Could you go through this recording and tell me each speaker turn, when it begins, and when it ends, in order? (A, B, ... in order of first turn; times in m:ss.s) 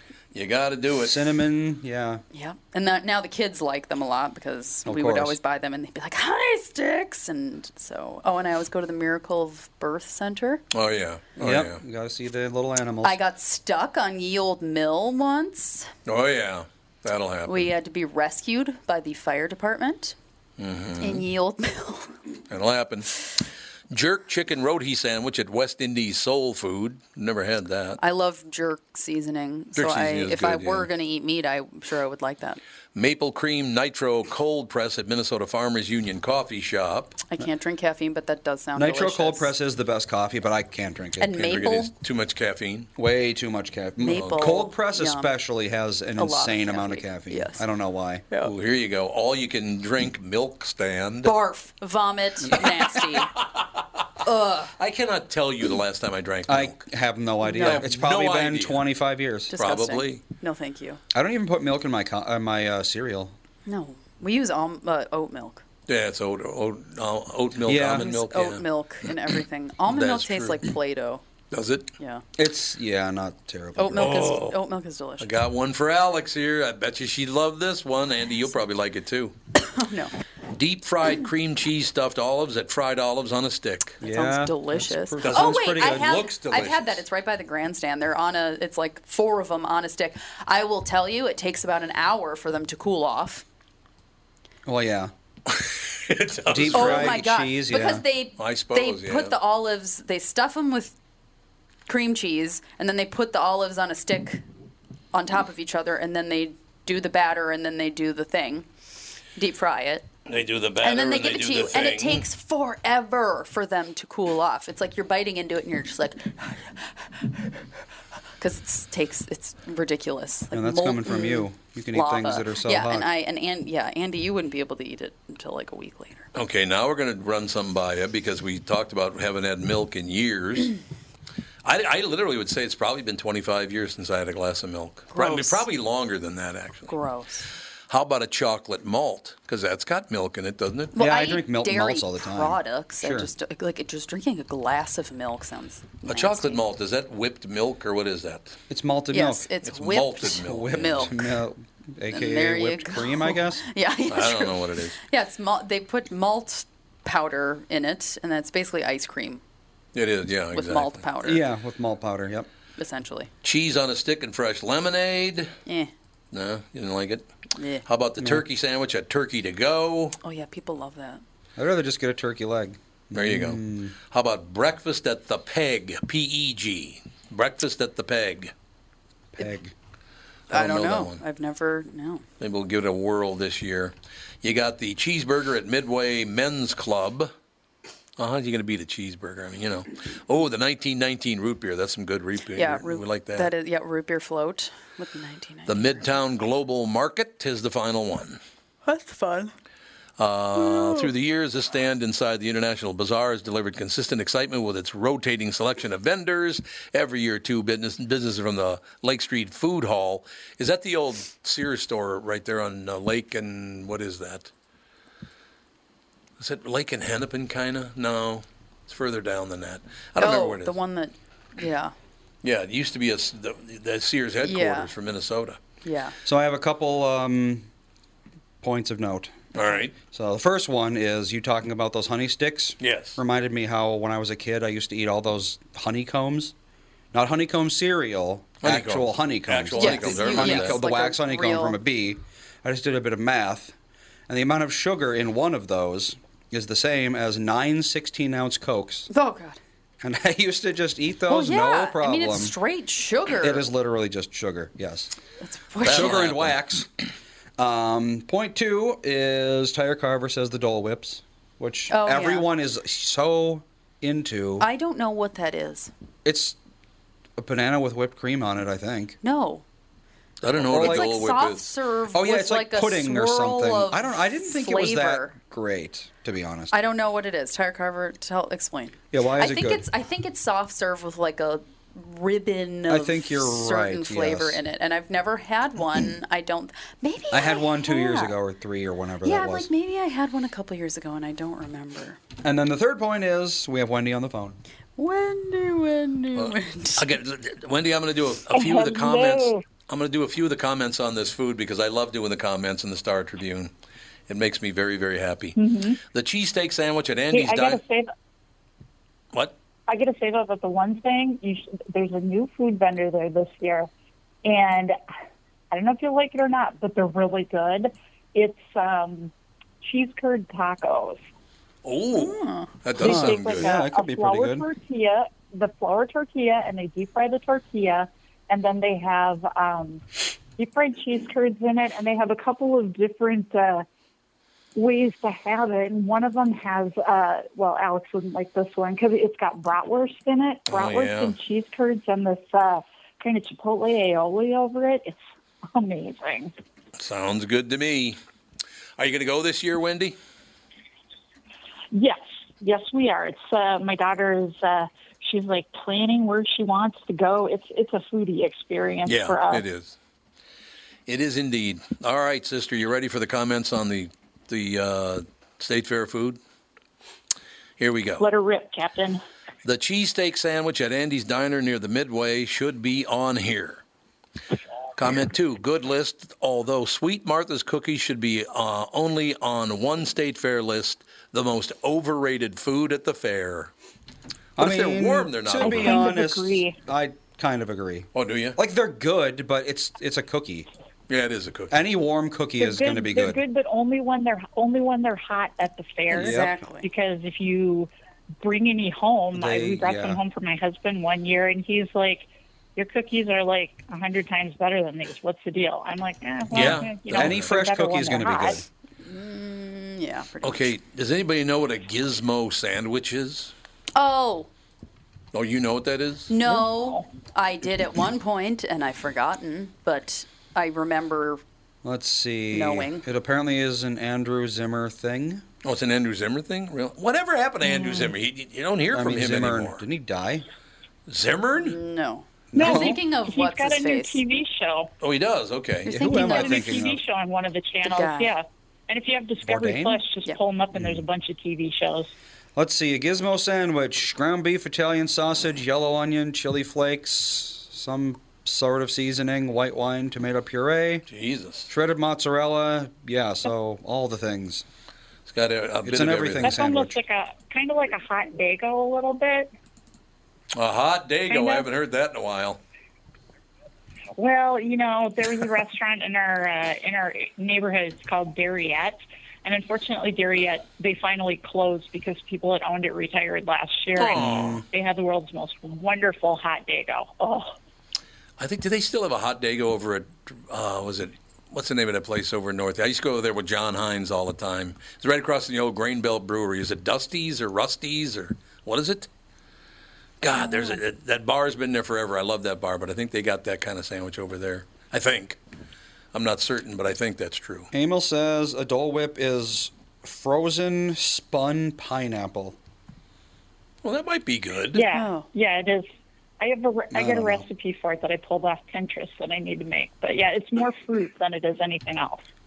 0:00.3-0:01.2 A
0:01.0-0:02.2 B
0:02.3-0:10.6 C
0:04.9-0:05.4 B
0:10.7-0:11.8 A
0:11.4-0:13.2 B
0:13.0-0:15.9 C
0:16.1-0:17.7 A
0:17.5-0:20.2 C
0:20.6-0:21.2 A
0:21.0-0:22.2 C
0:22.5-0:23.3 A
0:23.9-0:28.0 A
0:28.0-0:32.6 C
0:29.8-0:30.9 A
0:33.0-0:37.2 A
0:37.3-0:39.5 C
0:38.8-0:41.5 B
0:41.2-0:41.9 C
0:41.4-0:42.9 A
0:43.0-0:48.2 B
0:44.0-0:45.3 C
0:44.1-0:44.6 A
0:46.2-0:47.6 C
0:48.4-0:51.4 A
0:51.2-0:53.3 C
0:53.4-0:53.6 A
0:54.2-0:54.7 C
0:54.7-0:56.9 A
0:56.5-0:59.5 B
0:57.4-0:57.9 C
0:57.6-0:58.9 A
0:59.5-1:01.0 C
0:59.5-1:00.2 A
1:01.1-1:03.4 B
1:03.7-1:05.6 C
1:05.9-1:08.6 A
1:07.6-1:08.1 B
1:07.8-1:11.2 C
1:09.9-1:10.7 A
1:11.5-1:11.9 A
1:12.0-1:12.2 C
1:12.4-1:14.4 B
1:13.8-1:15.3 C
1:14.0-1:14.6 A
1:15.2-1:19.3 A
1:19.6-1:20.1 C
1:20.5-1:24.0 A
1:24.0-1:26.3 B
1:24.0-1:33.4 C
1:25.2-1:27.0 A
1:34.7-1:35.1 B
1:35.5-1:37.2 A
1:36.5-1:38.0 B
1:36.7-1:41.0 C
1:38.4-1:39.4 A
1:41.9-1:44.4 C
1:45.1-1:48.7 C
1:49.4-1:50.1 C
1:50.3-1:52.2 A
1:50.8-1:57.4 C
1:58.4-2:06.3 C
2:00.5-2:03.1 B
2:06.3-2:10.8 A
2:11.6-2:16.9 A
2:15.1-2:15.7 C
2:16.9-2:17.5 C
2:17.9-2:21.0 A
2:21.0-2:23.3 B
2:21.0-2:26.6 C
2:26.0-2:28.6 A
2:28.7-2:29.5 B
2:29.1-2:31.2 C
2:29.6-2:31.2 A
2:30.4-2:33.6 B
2:32.1-2:39.4 C
2:34.1-2:35.0 A
2:39.9-2:41.0 A
2:40.5-2:41.5 C
2:41.2-2:42.5 B
2:42.8-2:43.3 C
2:43.4-2:45.5 A
2:45.7-2:45.9 C
2:46.3-2:47.3 A
2:47.6-2:47.8 C
2:47.8-2:50.2 A
2:50.2-2:51.2 C
2:51.6-2:54.0 B
2:53.1-2:58.5 A
2:59.3-2:59.7 B
3:00.5-3:01.2 A
3:00.5-3:02.2 C
3:02.4-3:07.3 A
3:08.2-3:13.5 A
3:12.5-3:16.2 C
3:15.7-3:18.4 A
3:18.8-3:19.5 C
3:20.2-3:34.5 A
3:20.6-3:21.1 C
3:36.4-3:40.8 A
3:40.2-3:41.9 C
3:42.4-3:45.6 A
3:44.4-3:44.9 C
3:45.8-3:46.2 C
3:46.2-3:47.7 B
3:48.6-3:49.4 B
3:49.6-3:50.0 A
3:50.0-3:56.5 B
3:52.8-3:53.2 A
3:57.1-4:03.8 B
3:58.6-4:00.8 A
3:59.8-4:01.8 C
4:04.3-4:09.1 B
4:09.1-4:09.6 C
4:10.0-4:12.6 B
4:11.3-4:13.7 C
4:13.4-4:15.1 B
4:15.4-4:16.3 C
4:15.8-4:16.6 A
4:15.8-4:16.9 B
4:17.6-4:24.7 B
4:21.9-4:22.5 C
4:24.6-4:25.9 C
4:26.2-4:26.6 B
4:27.4-4:29.2 B
4:29.2-4:29.6 C
4:30.4-4:31.7 A
4:30.6-4:31.3 B
4:30.7-4:35.3 C
4:32.1-4:36.7 B
4:36.7-4:48.4 C
4:39.1-4:39.8 B
4:42.9-4:44.6 B
4:47.3-4:49.7 B
4:49.2-4:52.2 C
4:52.4-4:54.6 B
4:55.0-4:57.1 C
4:56.4-5:03.7 A
4:58.5-4:59.6 D
5:04.3-5:05.6 A
5:05.6-5:06.0 D
5:06.1-5:07.8 A
5:07.3-5:08.1 D
5:09.9-5:13.9 D
5:14.4-5:15.0 D
5:15.7-5:21.2 D
5:21.8-5:23.7 A
5:22.1-5:22.7 C
5:23.0-5:24.7 B
5:23.0-5:30.0 D
5:30.6-5:33.9 D
5:34.8-5:45.2 D
5:40.7-5:41.4 A
5:45.7-5:46.5 D
5:47.0-5:48.2 A
5:49.0-5:50.2 A
5:51.9-5:59.7 D
5:59.0-6:00.0 A
6:01.1-6:06.4 A
6:07.8-6:08.2 A
6:08.2-6:09.2 D
6:09.6-6:13.8 A
6:15.0-6:23.7 A
6:24.6-6:26.0 A
6:24.6-6:30.7 B
6:25.6-6:26.8 D
6:28.2-6:28.6 A
6:31.1-6:31.8 A
6:31.7-6:33.4 B
6:32.6-6:37.9 D
6:36.1-6:36.9 C
6:36.1-6:36.6 B
6:38.4-6:48.6 D
6:39.4-6:40.2 B
6:46.5-6:47.5 A
6:46.6-6:48.6 B
6:49.0-6:50.7 C
6:50.4-6:53.5 A
6:54.0-6:54.5 C
6:55.3-6:56.3 A
6:56.3-7:01.4 C
6:56.4-6:57.1 D
7:01.8-7:05.4 B
7:02.5-7:03.1 C
7:05.6-7:09.8 A
7:07.6-7:08.1 D
7:08.9-7:10.4 B
7:11.1-7:11.8 A
7:11.6-7:14.2 C
7:12.5-7:13.0 B
7:12.6-7:14.9 D
7:15.0-7:16.0 A
7:15.9-7:16.8 C
7:15.9-7:17.0 B
7:16.1-7:22.1 D
7:17.8-7:18.3 C
7:19.4-7:20.0 B
7:22.6-7:31.0 B
7:31.1-7:31.7 A
7:31.7-7:34.6 B
7:35.3-7:36.5 A
7:35.8-7:37.0 B
7:36.4-7:39.5 D
7:40.5-7:42.6 A
7:41.3-7:41.7 D
7:44.2-7:57.6 D
7:54.0-7:54.6 A
7:54.2-7:54.6 B
7:58.4-8:09.1 A
8:10.2-8:15.4 A
8:16.1-8:17.7 A
8:17.7-8:22.6 B
8:23.8-8:24.8 A
8:24.7-8:25.9 D
8:24.9-8:25.3 C
8:26.4-8:32.2 D
8:26.9-8:27.4 B